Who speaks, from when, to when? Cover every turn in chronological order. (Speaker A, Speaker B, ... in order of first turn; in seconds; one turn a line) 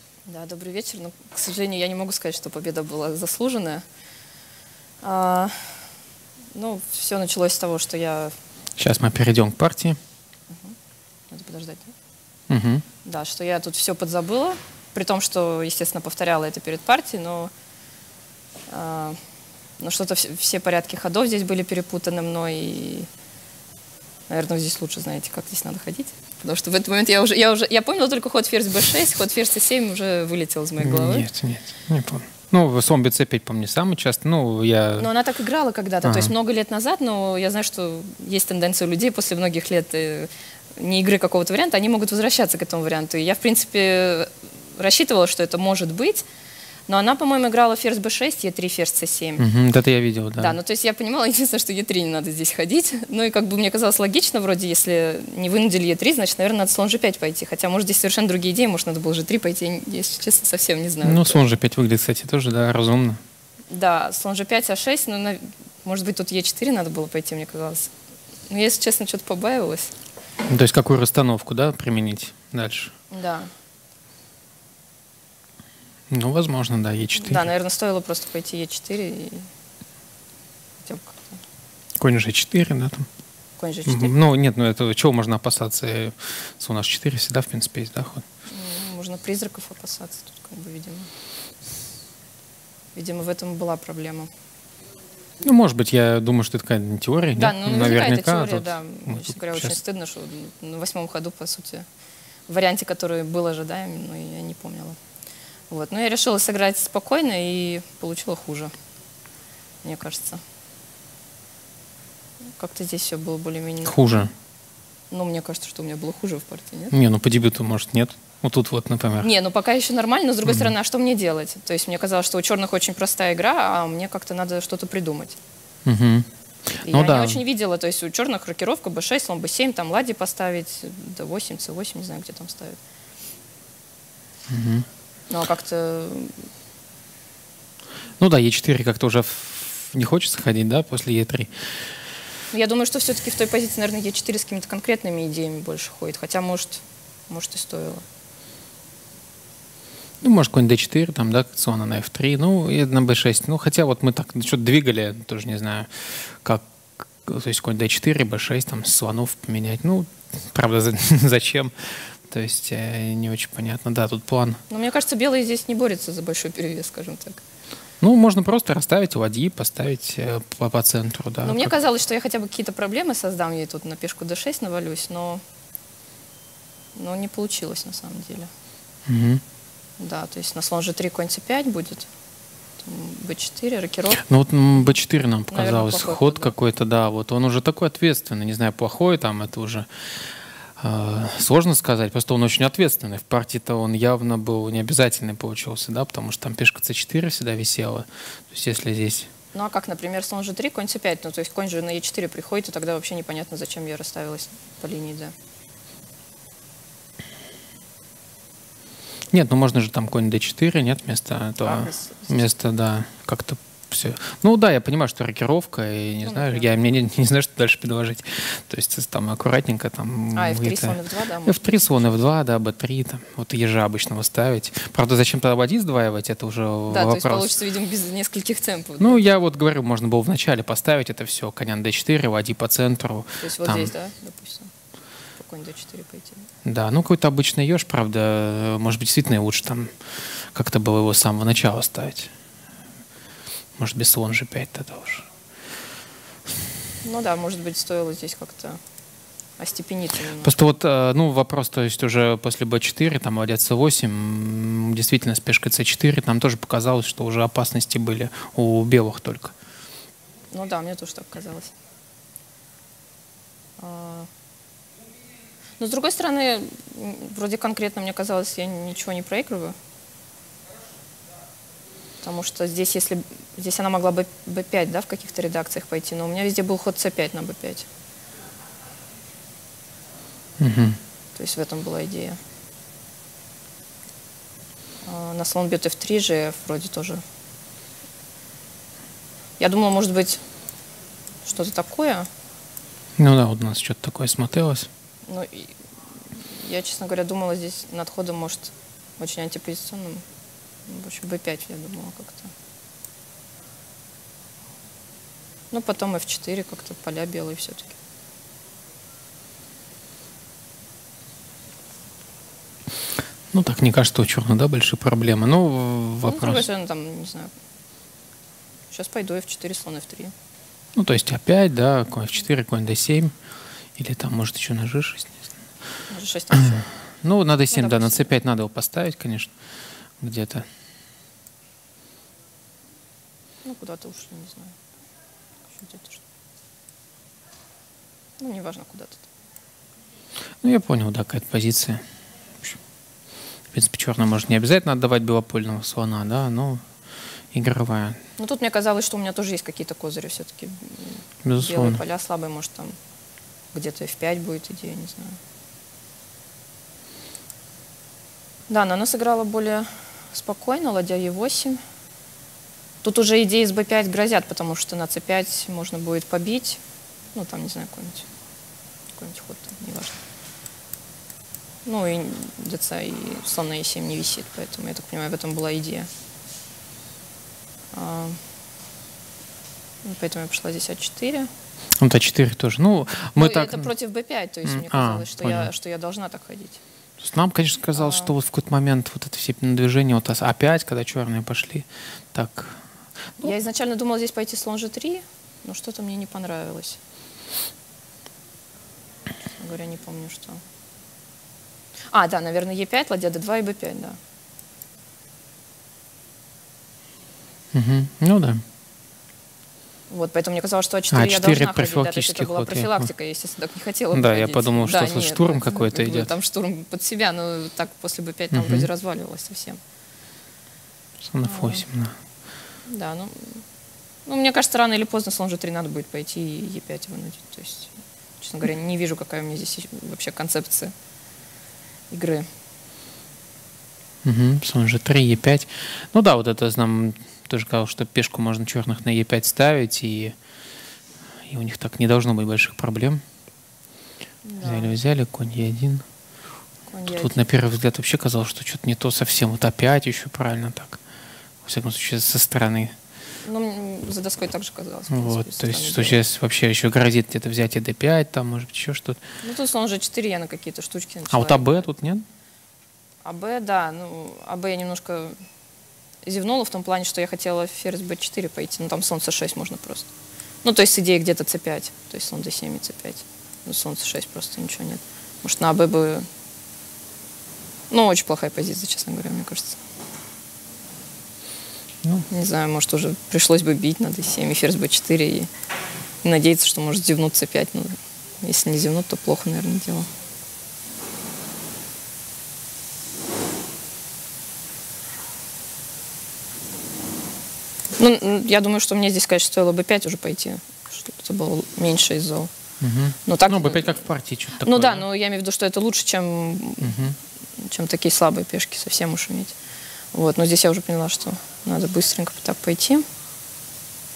Speaker A: 0.3-3.8
Speaker A: 5.0-5.9
Speaker A: 6.5-8.3
Speaker B: 8.8-10.0
Speaker A: 11.3-11.9
Speaker B: 12.5-12.9
Speaker A: 13.1-17.5
Speaker A: 18.7-19.2
Speaker A: 19.8-23.1
Speaker A: 24.3-31.3
Speaker B: 30.8-35.1
Speaker A: 35.0-46.2
Speaker B: 36.0-36.3
Speaker A: 46.9-49.5
Speaker B: 49.4-50.6
Speaker A: 50.4-61.5
Speaker B: 61.0-63.2
Speaker A: 63.7-67.9
Speaker A: 68.5-69.9
Speaker B: 70.5-72.9
Speaker A: 73.1-73.5
Speaker B: 76.1-77.5
Speaker A: 77.2-79.5
Speaker A: 80.8-81.3
Speaker B: 82.0-83.1
Speaker A: 83.6-84.2
Speaker B: 83.9-88.2
Speaker A: 88.5-91.1
Speaker A: 93.0-94.3
Speaker B: 95.4-99.8
Speaker A: 97.3-101.8
Speaker A: 102.5-105.0
Speaker A: 105.7-108.7
Speaker A: 109.8-110.4
Speaker A: 112.6-114.2
Speaker B: 113.8-114.3
Speaker A: 115.1-117.0
Speaker B: 116.9-119.3
Speaker A: 119.2-125.4
Speaker B: 120.5-120.7
Speaker B: 125.9-127.4
Speaker A: 126.8-132.8
Speaker B: 134.5-134.9
Speaker A: 135.3-136.4
Speaker B: 138.2-141.7
Speaker A: 142.5-148.0
Speaker B: 150.2-156.6
Speaker B: 157.2-164.6
Speaker A: 164.7-167.4
Speaker B: 168.0-171.7
Speaker A: 171.4-175.4
Speaker A: 176.9-178.5
Speaker B: 179.1-179.4
Speaker A: 180.0-182.1
Speaker A: 182.8-184.9
Speaker B: 184.2-189.9
Speaker A: 185.5-186.5
Speaker B: 190.8-199.3
Speaker A: 199.5-205.3
Speaker B: 209.3-227.6
Speaker A: 211.6-212.5
Speaker A: 216.2-216.8
Speaker A: 220.3-222.2
Speaker A: 226.9-229.3
Speaker B: 229.0-233.9
Speaker A: 233.4-234.7
Speaker A: 235.4-236.5
Speaker B: 236.7-242.3
Speaker B: 243.8-245.3
Speaker A: 247.0-248.8
Speaker A: 249.6-250.6
Speaker B: 250.4-259.6
Speaker A: 260.5-261.7
Speaker A: 263.8-264.3
Speaker A: 265.8-269.8
Speaker A: 272.2-277.9
Speaker B: 280.6-281.0
Speaker A: 281.4-282.4
Speaker A: 285.1-287.2
Speaker A: 289.6-290.4
Speaker A: 291.4-292.3
Speaker B: 293.2-294.9
Speaker A: 295.3-295.7
Speaker A: 296.3-300.2
Speaker A: 300.9-302.5
Speaker A: 305.7-308.0
Speaker B: 313.5-316.7
Speaker A: 316.2-317.5
Speaker A: 318.9-320.3
Speaker B: 320.9-323.3
Speaker B: 324.0-325.5
Speaker A: 326.1-326.9
Speaker B: 326.6-329.5
Speaker A: 327.7-328.3
Speaker B: 330.2-330.6
Speaker A: 333.6-334.8
Speaker A: 335.7-336.2
Speaker A: 338.4-339.3
Speaker B: 340.6-342.0
Speaker B: 343.7-346.8
Speaker B: 347.5-348.2
Speaker A: 348.4-353.0
Speaker B: 351.4-352.0
Speaker A: 353.7-355.4
Speaker A: 358.7-361.8
Speaker A: 363.0-366.8
Speaker A: 367.3-368.3
Speaker A: 369.2-370.2
Speaker A: 371.9-376.1
Speaker A: 377.9-378.4
Speaker A: 380.1-381.5
Speaker B: 382.0-383.9
Speaker A: 383.4-386.8
Speaker B: 384.6-385.7
Speaker B: 387.2-392.8
Speaker A: 388.0-388.3
Speaker A: 393.4-397.0
Speaker A: 399.5-400.6
Speaker A: 402.1-404.2
Speaker B: 407.7-408.6
Speaker A: 410.1-419.8
Speaker B: 411.1-413.1
Speaker B: 414.1-416.3
Speaker B: 418.5-418.9
Speaker B: 421.3-422.1
Speaker A: 421.4-421.9
Speaker A: 422.9-423.6
Speaker A: 424.3-430.9
Speaker A: 432.1-432.5
Speaker B: 434.2-440.4
Speaker B: 441.4-443.2
Speaker A: 444.4-444.9
Speaker B: 444.6-446.1
Speaker A: 446.9-447.4
Speaker B: 447.1-451.0
Speaker B: 451.6-452.9
Speaker A: 453.4-456.2
Speaker B: 455.1-459.2
Speaker A: 459.4-461.9
Speaker B: 461.3-462.2
Speaker A: 463.2-465.4
Speaker A: 466.2-470.1
Speaker A: 470.6-476.3
Speaker A: 477.9-479.8
Speaker A: 482.3-485.5
Speaker A: 486.2-490.1
Speaker A: 498.0-502.5
Speaker B: 502.8-505.1
Speaker A: 503.3-504.0
Speaker A: 504.6-507.0
Speaker B: 506.8-507.2
Speaker A: 507.6-509.6
Speaker A: 510.1-513.0